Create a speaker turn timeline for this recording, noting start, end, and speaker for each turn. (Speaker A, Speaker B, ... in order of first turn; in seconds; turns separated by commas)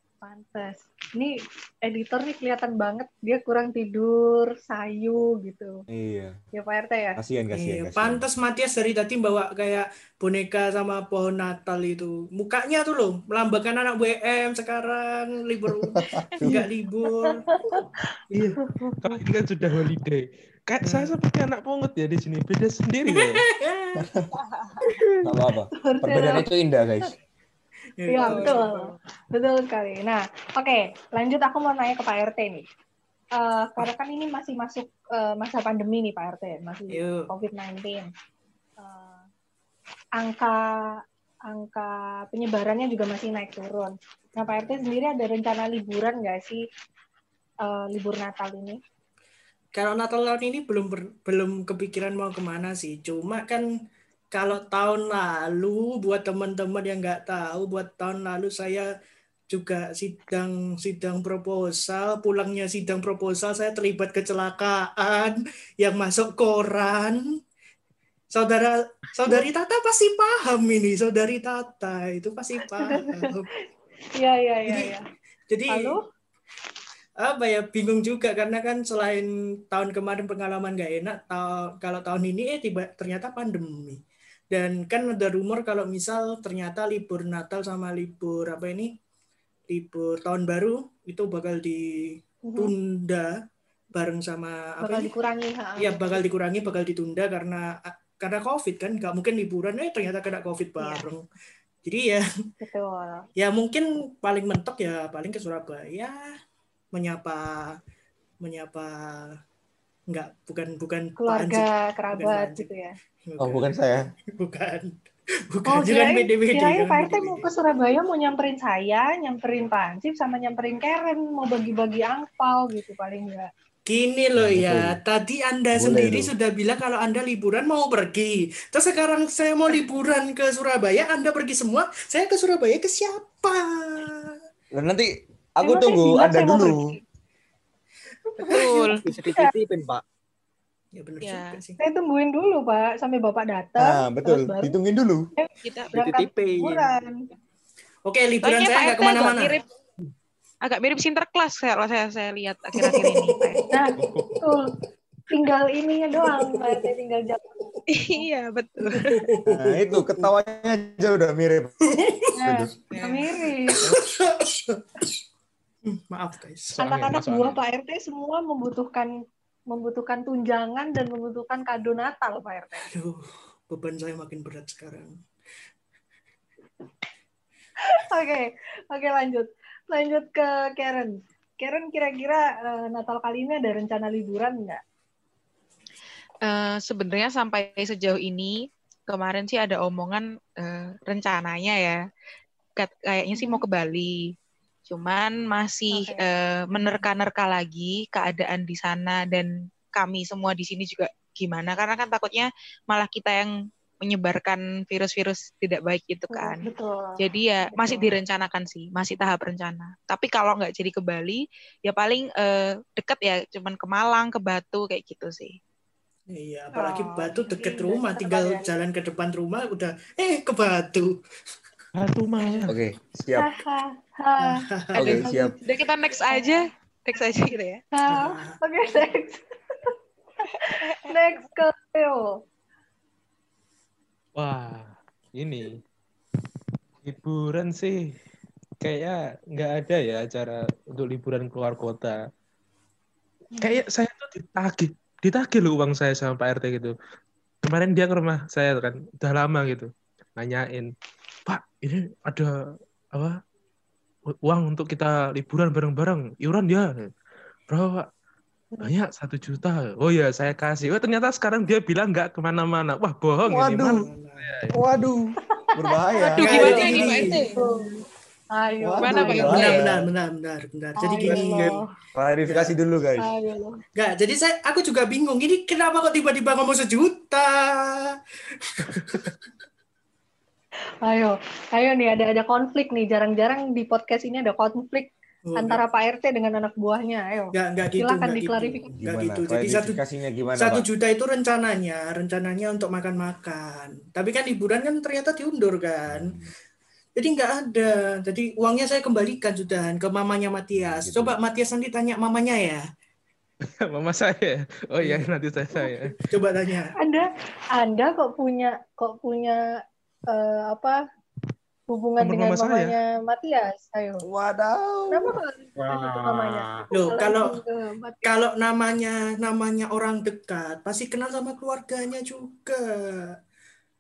Speaker A: 0.2-5.7, Speaker B: 5.9-6.4, Speaker A: 6.5-7.2, Speaker B: 7.2-8.2, Speaker C: 7.5-18.5, Speaker B: 16.1-16.6, Speaker A: 17.2-17.8, Speaker D: 18.3-23.4, Speaker A: 18.6-18.9, Speaker C: 20.8-21.1, Speaker C: 23.1-24.1, Speaker B: 24.0-24.3, Speaker E: 24.3-24.9, Speaker B: 25.2-27.1, Speaker A: 25.8-26.5, Speaker C: 28.0-28.9, Speaker A: 28.1-28.8, Speaker E: 28.2-28.6, Speaker A: 29.3-32.7, Speaker A: 33.4-38.1, Speaker C: 36.9-37.3, Speaker A: 38.8-39.2, Speaker A: 40.2-40.9, Speaker A: 41.5-46.6, Speaker A: 47.6-48.8, Speaker C: 49.8-53.7, Speaker C: 54.3-58.9, Speaker C: 59.5-67.2, Speaker C: 68.3-73.5, Speaker A: 72.8-73.3, Speaker A: 74.2-75.0, Speaker C: 74.7-74.9, Speaker C: 75.5-76.0, Speaker A: 75.7-76.0, Speaker C: 77.2-88.9, Speaker C: 89.7-93.3, Speaker A: 92.5-92.7, Speaker C: 94.0-95.1, Speaker A: 94.8-96.2, Speaker C: 95.8-101.2, Speaker A: 100.8-101.0, Speaker C: 101.8-102.2, Speaker A: 102.6-103.3, Speaker C: 103.4-106.2, Speaker C: 106.9-107.8, Speaker C: 108.4-109.4, Speaker C: 110.1-112.7, Speaker A: 111.2-113.0, Speaker C: 113.3-113.7, Speaker B: 113.4-114.0, Speaker C: 114.3-115.0, Speaker C: 115.5-117.5, Speaker A: 115.7-123.5, Speaker C: 123.9-134.4, Speaker B: 124.4-125.0, Speaker B: 125.8-126.3, Speaker B: 134.7-136.9, Speaker A: 135.6-137.0, Speaker A: 138.4-139.5, Speaker E: 138.4-139.0, Speaker F: 139.0-140.0, Speaker C: 141.0-141.8, Speaker E: 141.2-141.6, Speaker A: 141.8-144.8, Speaker B: 143.8-145.3, Speaker A: 145.4-147.2, Speaker E: 145.6-145.9, Speaker F: 145.9-146.9, Speaker C: 148.1-149.6, Speaker E: 148.4-149.6, Speaker E: 150.6-153.6, Speaker C: 152.8-154.4, Speaker A: 153.7-154.8, Speaker D: 154.0-154.4, Speaker A: 155.3-157.7, Speaker C: 156.2-156.9, Speaker E: 157.9-159.3, Speaker C: 158.9-160.3, Speaker B: 159.5-161.7, Speaker C: 161.9-162.3, Speaker A: 162.4-163.8, Speaker B: 162.4-162.7, Speaker E: 162.9-163.3, Speaker C: 163.7-165.2, Speaker C: 165.9-166.7, Speaker D: 166.7-167.6, Speaker A: 166.8-169.1, Speaker A: 169.7-172.9, Speaker C: 172.9-175.2, Speaker A: 177.8-184.8, Speaker E: 186.4-192.0, Speaker E: 192.8-194.2, Speaker A: 193.4-193.6, Speaker E: 194.9-203.5, Speaker A: 195.9-196.3, Speaker E: 204.0-206.6, Speaker A: 206.3-207.2, Speaker E: 207.2-215.6, Speaker A: 207.7-208.1, Speaker C: 216.3-221.2, Speaker A: 216.8-218.7, Speaker D: 221.9-222.8, Speaker B: 222.7-223.5, Speaker A: 223.4-225.6, Speaker C: 224.4-225.3, Speaker B: 225.0-225.6, Speaker E: 225.6-227.8, Speaker A: 226.3-226.6, Speaker A: 227.9-229.9, Speaker C: 228.1-228.6, Speaker A: 230.6-232.3, Speaker D: 234.4-235.8, Speaker D: 237.0-238.0, Speaker D: 238.8-242.2, Speaker D: 243.6-246.9, Speaker D: 247.6-250.9, Speaker D: 251.5-252.5, Speaker D: 254.4-257.1, Speaker D: 257.7-258.1, Speaker D: 258.8-264.7, Speaker B: 263.5-264.1, Speaker C: 263.8-264.5, Speaker B: 264.7-267.1, Speaker A: 266.3-267.9, Speaker C: 266.3-267.5, Speaker E: 266.3-267.6, Speaker A: 268.6-269.7, Speaker B: 268.8-270.1, Speaker E: 269.0-269.9, Speaker C: 269.4-271.8, Speaker A: 271.0-271.9, Speaker F: 271.2-271.8, Speaker B: 272.2-273.3, Speaker C: 272.4-272.7, Speaker A: 273.2-273.8, Speaker C: 274.0-279.4, Speaker A: 281.0-288.9, Speaker C: 285.4-285.8, Speaker C: 287.5-290.0, Speaker B: 289.0-290.9, Speaker C: 290.6-296.3, Speaker B: 296.1-296.5, Speaker C: 297.2-302.8, Speaker B: 300.8-301.4, Speaker D: 303.9-306.2, Speaker C: 306.2-306.9, Speaker A: 307.0-309.6, Speaker A: 310.3-311.0, Speaker A: 311.9-314.2, Speaker D: 312.2-313.0, Speaker B: 314.2-315.4, Speaker A: 315.1-318.3, Speaker F: 315.8-316.9, Speaker C: 316.9-317.6, Speaker C: 318.2-323.4